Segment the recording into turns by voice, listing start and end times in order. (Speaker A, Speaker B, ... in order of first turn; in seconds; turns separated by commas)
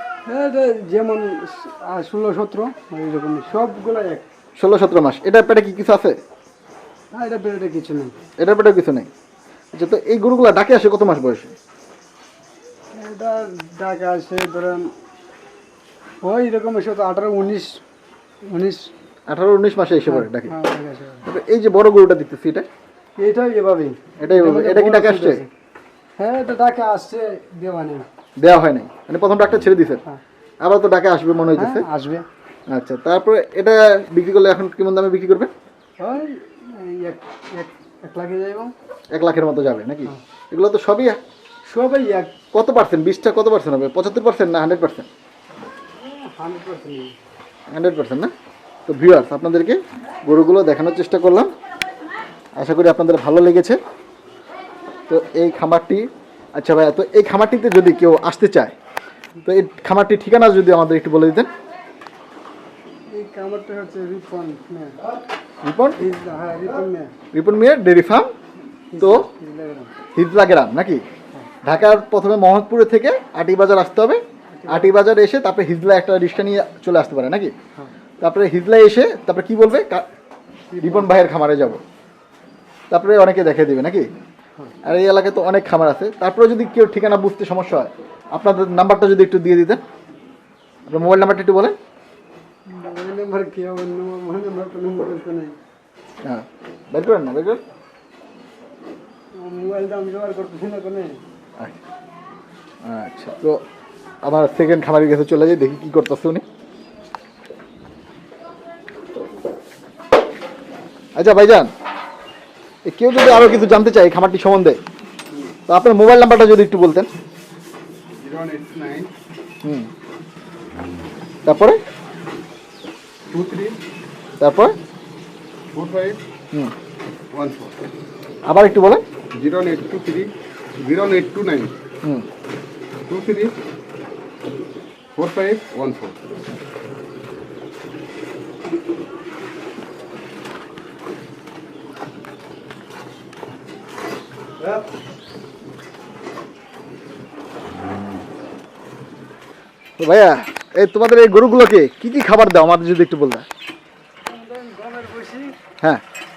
Speaker A: 0.2-4.2, Speaker B: 4.6-6.2, Speaker A: 7.1-8.2, Speaker B: 8.4-9.1, Speaker B: 9.7-11.5, Speaker A: 12.9-14.9, Speaker A: 16.2-17.8, Speaker A: 18.5-18.9, Speaker B: 19.3-20.6, Speaker A: 20.1-21.2, Speaker B: 21.2-22.7, Speaker A: 23.2-25.5, Speaker B: 24.2-25.4, Speaker A: 26.2-28.1, Speaker B: 28.4-30.0, Speaker B: 30.6-31.9, Speaker A: 31.6-32.3, Speaker B: 32.7-35.5, Speaker A: 36.0-38.7, Speaker B: 39.1-41.2, Speaker A: 41.7-42.5, Speaker B: 42.5-45.1, Speaker A: 45.9-47.1, Speaker B: 47.7-48.3, Speaker B: 48.9-51.5, Speaker B: 52.6-53.8, Speaker B: 55.1-58.7, Speaker B: 59.4-61.5, Speaker A: 63.1-65.0, Speaker B: 65.6-66.0, Speaker A: 66.0-67.1, Speaker B: 67.3-68.3, Speaker A: 68.9-69.9, Speaker B: 69.0-69.3, Speaker B: 70.1-71.0, Speaker B: 71.6-77.5, Speaker A: 74.5-74.9, Speaker B: 78.2-80.0, Speaker A: 80.7-81.1, Speaker B: 80.8-81.8, Speaker B: 82.9-84.1, Speaker B: 84.8-89.8, Speaker B: 90.9-91.8, Speaker A: 92.7-95.5, Speaker B: 96.2-97.6, Speaker A: 99.3-101.2, Speaker B: 102.8-103.6, Speaker B: 104.2-106.4, Speaker B: 111.2-111.7, Speaker B: 112.8-114.8, Speaker B: 115.7-117.1, Speaker C: 118.2-119.1, Speaker B: 119.6-119.9, Speaker B: 121.4-121.8, Speaker C: 123.3-123.8, Speaker B: 124.4-124.8, Speaker C: 125.7-126.2, Speaker C: 127.3-127.8, Speaker B: 128.4-129.0, Speaker C: 129.3-131.7, Speaker C: 133.1-133.6, Speaker C: 135.2-136.2, Speaker A: 144.6-144.8, Speaker B: 150.0-153.4, Speaker A: 154.2-155.6